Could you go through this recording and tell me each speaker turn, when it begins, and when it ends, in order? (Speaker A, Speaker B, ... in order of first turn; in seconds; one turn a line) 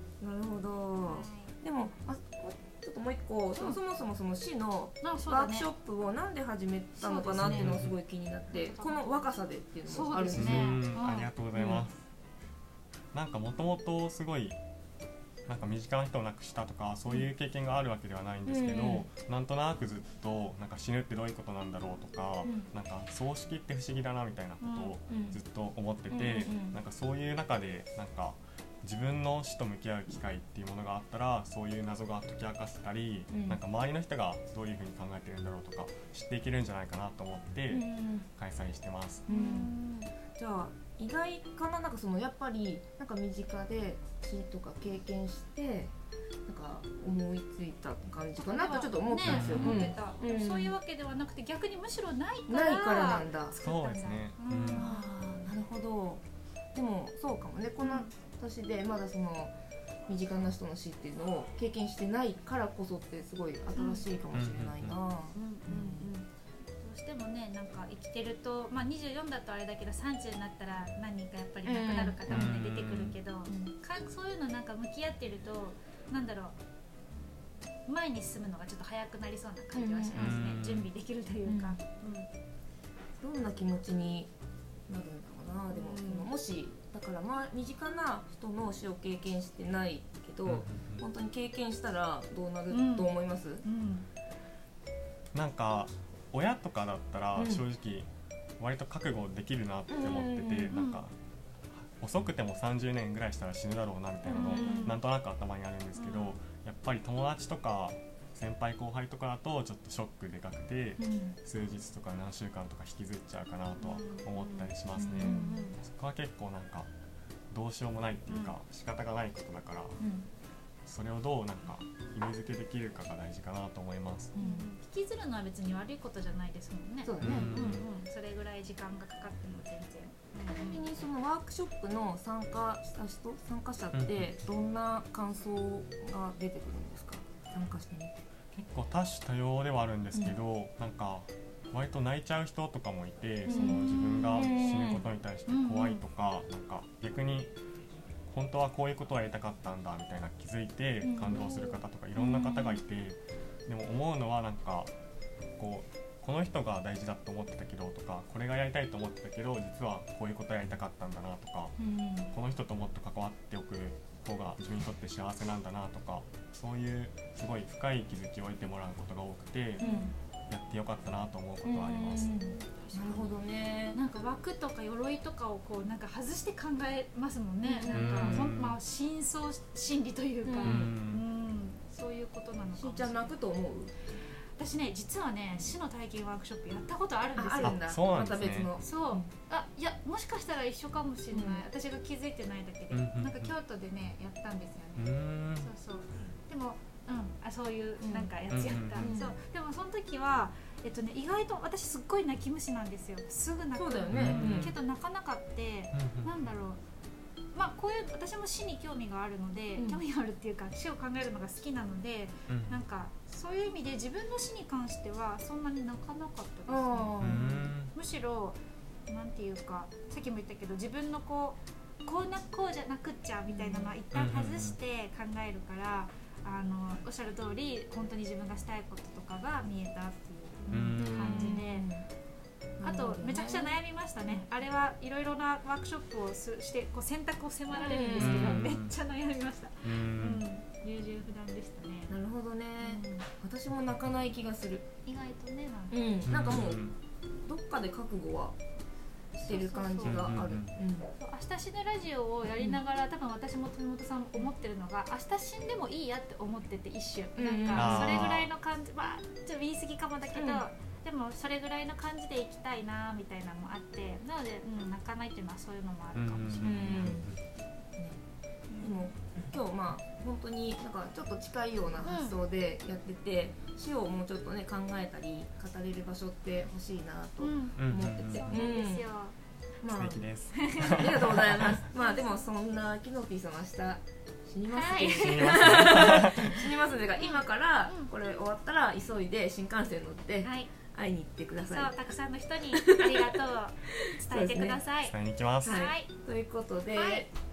Speaker A: 0.2-10.6
Speaker B: 1.1-1.5
Speaker B: 5.0-5.7
Speaker B: 7.0-7.8
Speaker C: 7.4-8.0
Speaker B: 8.5-9.1
Speaker B: 9.9-11.3
Speaker C: 10.3-12.1
Speaker A: 11.6-11.9
Speaker C: 13.1-14.6
Speaker C: 15.5-37.9
Speaker A: 18.5-19.1
Speaker A: 22.4-22.7
Speaker B: 24.6-25.0
Speaker A: 25.1-25.4
Speaker A: 26.1-26.8
Speaker A: 33.3-33.6
Speaker A: 37.7-38.3
Speaker C: 38.4-39.2
Speaker A: 39.3-39.7
Speaker B: 39.3-40.1
Speaker A: 40.3-45.9
Speaker A: 46.5-50.8
Speaker B: 48.4-55.5
Speaker C: 49.2-49.9
Speaker A: 52.5-53.6
Speaker C: 53.6-55.0
Speaker A: 54.8-56.2
Speaker A: 56.7-59.5
Speaker B: 57.8-58.1
Speaker A: 60.1-66.1
Speaker B: 63.8-64.0
Speaker C: 64.3-65.0
Speaker B: 65.3-66.3
Speaker B: 66.8-76.6
Speaker A: 71.7-72.6
Speaker C: 72.3-73.2
Speaker A: 73.5-73.7
Speaker B: 77.9-82.3
Speaker A: 79.7-80.4
Speaker C: 80.2-80.9
Speaker A: 81.4-81.8
Speaker A: 83.2-84.3
Speaker A: 84.9-93.7
Speaker B: 85.7-86.3
Speaker C: 90.5-91.0
Speaker B: 92.7-94.1
Speaker C: 95.3-98.1
Speaker A: 97.3-97.7
Speaker C: 98.6-101.2
Speaker A: 99.9-100.9
Speaker B: 100.7-101.0
Speaker C: 101.8-116.9
Speaker B: 104.3-105.0
Speaker A: 104.5-104.9
Speaker B: 106.0-106.4
Speaker A: 111.0-111.4
Speaker B: 113.8-115.8
Speaker A: 115.0-115.6
Speaker C: 117.5-120.0
Speaker B: 118.3-118.6
Speaker A: 120.0-120.3
Speaker C: 120.9-124.3
Speaker A: 124.3-124.7
Speaker B: 124.4-130.8
Speaker A: 127.0-127.5
Speaker C: 127.2-127.9
Speaker A: 130.5-138.2
Speaker C: 133.9-134.3
Speaker C: 138.5-147.5
Speaker A: 143.4-143.8
Speaker B: 143.5-144.5
Speaker A: 144.4-145.1
Speaker B: 145.5-146.0
Speaker C: 148.3-154.9
Speaker A: 151.1-151.5
Speaker B: 152.2-152.8
Speaker C: 155.6-161.8
Speaker A: 161.8-162.3
Speaker C: 162.3-169.8
Speaker B: 169.8-170.1
Speaker A: 169.8-170.1
Speaker C: 170.5-172.3
Speaker A: 171.6-174.0
Speaker B: 172.4-173.4
Speaker B: 173.9-183.3
Speaker A: 177.6-178.4
Speaker C: 177.9-178.8
Speaker A: 180.4-180.9
Speaker C: 180.6-181.2
Speaker A: 182.8-184.0
Speaker B: 184.6-187.8
Speaker A: 187.3-189.3
Speaker C: 187.6-188.7
Speaker B: 188.8-206.8
Speaker A: 191.3-191.7
Speaker C: 192.9-193.6
Speaker C: 195.0-195.7
Speaker A: 198.0-198.3
Speaker C: 198.5-199.2
Speaker A: 199.0-199.4
Speaker A: 203.8-204.8
Speaker C: 204.1-204.8
Speaker C: 205.9-206.4
Speaker B: 207.6-231.9
Speaker A: 209.8-210.0
Speaker C: 212.5-212.8
Speaker A: 216.7-217.6
Speaker C: 217.2-217.9
Speaker A: 223.5-224.0
Speaker C: 224.1-224.8
Speaker C: 230.7-231.6
Speaker A: 230.9-232.1
Speaker A: 232.8-234.5
Speaker B: 232.8-242.2
Speaker A: 237.7-238.7
Speaker C: 238.2-239.0
Speaker C: 239.8-240.4
Speaker A: 242.1-244.8
Speaker B: 242.8-243.3
Speaker B: 245.1-246.0
Speaker A: 245.9-246.9
Speaker C: 246.3-246.9
Speaker A: 247.4-248.6
Speaker B: 249.3-250.4
Speaker A: 249.4-251.1
Speaker C: 250.0-250.7
Speaker B: 251.1-267.2
Speaker A: 252.5-252.8
Speaker A: 257.4-258.3
Speaker C: 257.7-258.5
Speaker A: 260.3-260.7
Speaker C: 266.1-267.4
Speaker A: 266.6-267.3
Speaker B: 268.7-269.1
Speaker A: 268.8-279.1
Speaker B: 272.0-272.4
Speaker B: 277.4-279.4
Speaker C: 277.8-278.5
Speaker A: 279.8-280.2
Speaker C: 279.9-281.8
Speaker B: 280.5-281.3
Speaker A: 281.0-292.2
Speaker B: 281.9-282.5
Speaker B: 284.7-285.9
Speaker C: 285.2-286.8
Speaker B: 287.2-288.1
Speaker B: 290.4-290.7
Speaker B: 291.7-296.1
Speaker A: 292.7-293.4
Speaker A: 294.1-294.8
Speaker C: 295.0-295.8
Speaker A: 295.6-297.3
Speaker B: 296.9-297.3